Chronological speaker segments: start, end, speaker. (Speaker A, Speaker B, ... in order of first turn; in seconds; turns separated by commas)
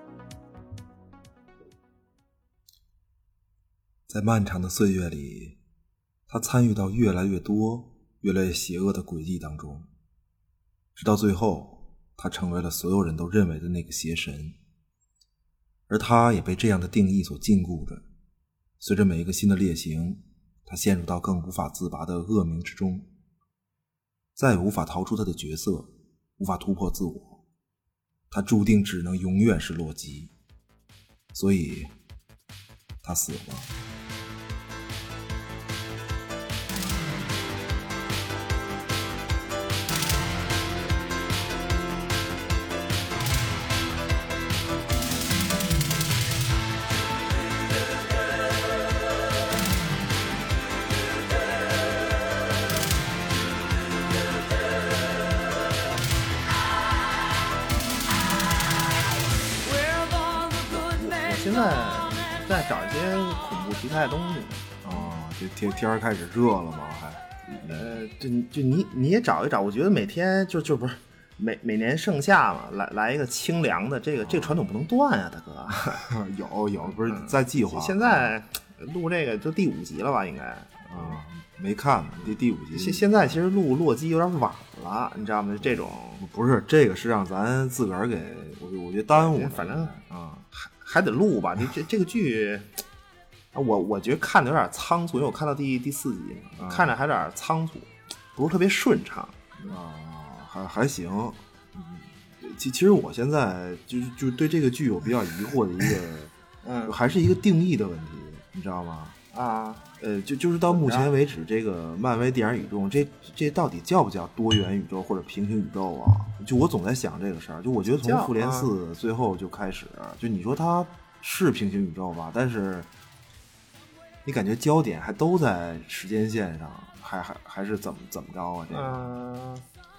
Speaker A: 4.1-5.6, Speaker A: 6.3-9.9, Speaker A: 11.0-14.6, Speaker A: 15.9-18.0, Speaker A: 18.8-23.1, Speaker A: 24.4-27.4, Speaker A: 28.3-30.3, Speaker A: 31.3-31.9, Speaker A: 33.0-33.7, Speaker B: 60.4-64.7, Speaker A: 64.8-68.0, Speaker B: 67.7-76.0, Speaker A: 74.2-74.6, Speaker A: 75.7-78.3, Speaker B: 77.0-81.2, Speaker A: 80.9-83.1, Speaker B: 82.7-86.2, Speaker A: 85.6-90.5, Speaker B: 89.1-89.9, Speaker B: 90.5-92.7, Speaker B: 93.5-99.8, Speaker A: 96.6-97.0, Speaker A: 99.7-106.3, Speaker B: 106.6-107.0, Speaker A: 106.9-109.2, Speaker B: 109.3-109.9, Speaker A: 110.0-122.9, Speaker B: 110.7-111.1, Speaker B: 117.9-118.8, Speaker A: 124.2-129.0, Speaker B: 128.7-129.6